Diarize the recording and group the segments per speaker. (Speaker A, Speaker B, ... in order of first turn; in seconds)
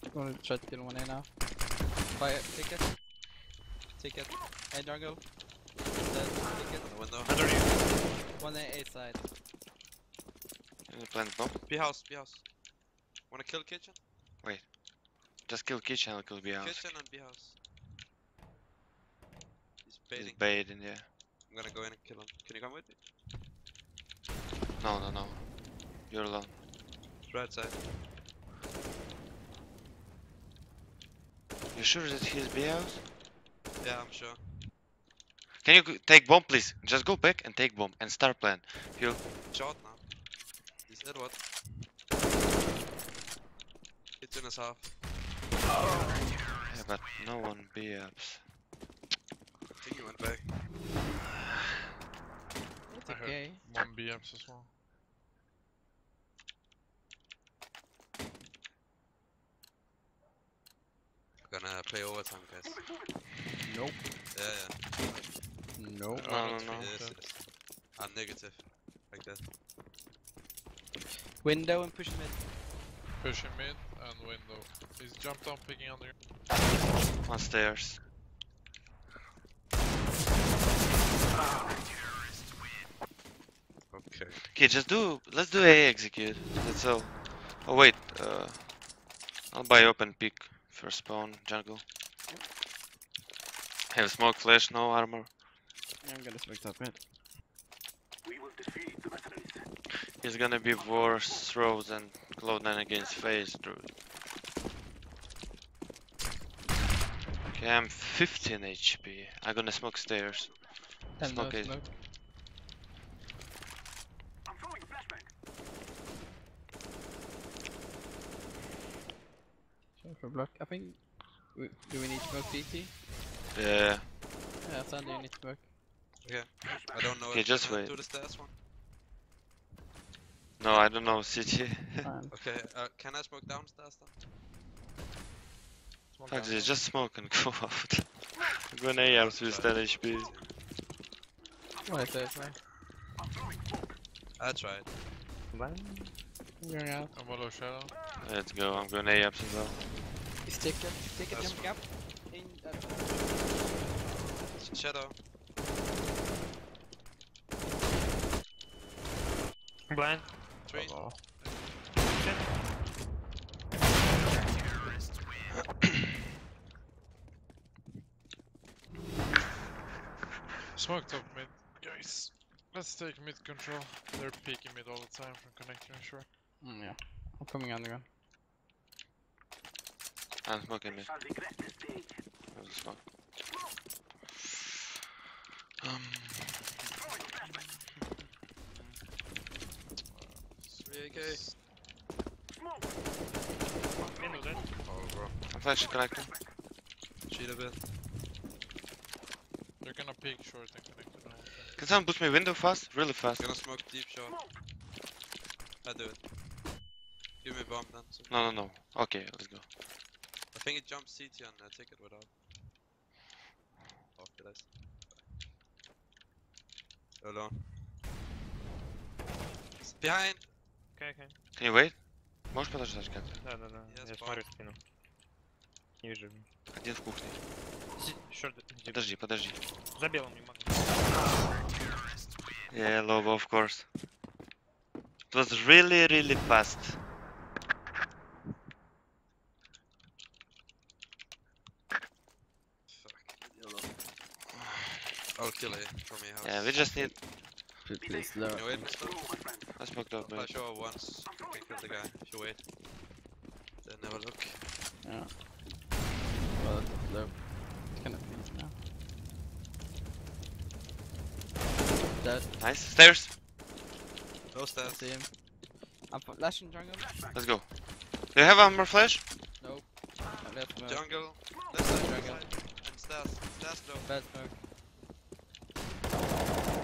Speaker A: 0.1-1.3, 2.1-3.0, 3.9-7.2, 8.4-9.2, 45.8-46.2, 52.9-53.6, 63.6-64.1, 65.7-66.3, 71.4-72.5, 96.0-97.1, 111.2-111.9, 120.0-122.9, 124.6-125.7, 132.0-132.3, 141.8-142.6, 146.6-147.1, 150.4-153.3, 176.6-178.0, 247.8-249.0, 255.0-255.5, 256.5-258.8, 262.2-262.5, 264.8-265.4, 266.0-267.3, 269.6-272.4, 274.0-274.6
Speaker B: 6.8-7.5, 11.7-12.5, 13.3-14.1, 16.5-17.6, 19.8-20.9, 21.4-23.2, 27.2-27.9, 33.8-34.7, 39.5-41.9, 44.2-45.0, 49.8-50.8, 61.4-62.9, 64.3-69.5, 83.9-84.4, 126.2-128.5, 130.7-130.9, 132.3-134.2, 139.0-140.8, 144.4-145.0, 148.7-149.0, 151.3-151.9, 154.2-155.2, 160.6-161.9, 170.8-171.3, 190.8-191.5, 194.8-195.5, 197.2-198.3, 203.4-204.6, 205.8-208.6, 210.5-212.4, 214.1-215.5, 217.2-218.1, 219.8-220.6, 223.8-224.5, 242.9-244.1, 245.3-247.1, 248.5-252.7, 253.8-254.7, 264.5-265.2, 270.8-274.2
Speaker C: 7.2-8.1, 136.1-136.8, 145.5-146.1, 159.9-160.4, 161.9-162.7, 194.2-194.7, 220.9-221.3, 223.4-224.8, 226.0-226.5, 227.9-230.9
Speaker D: 10.9-11.6, 14.4-14.7, 15.4-17.0, 20.1-21.1, 24.8-26.6, 31.7-33.0, 35.6-39.2, 46.7-48.5, 66.2-67.1, 77.2-78.0, 84.4-88.7, 89.5-91.8, 93.9-95.3, 99.9-103.9, 107.5-111.8, 123.5-124.0, 127.3-127.9, 130.6-132.1, 136.3-140.3, 148.2-149.8, 180.4-181.2, 182.5-183.0, 185.8-188.0, 195.5-196.4, 201.8-203.5, 208.3-209.7, 221.5-223.4, 226.7-227.4, 228.8-229.6, 232.7-233.9, 235.3-237.0, 246.4-247.2, 249.8-250.6, 262.6-263.3, 267.3-269.2
Speaker E: 53.0-54.7, 66.1-67.2, 73.2-76.1, 147.1-148.0, 160.7-161.2, 170.8-176.2, 190.1-191.5, 199.8-201.8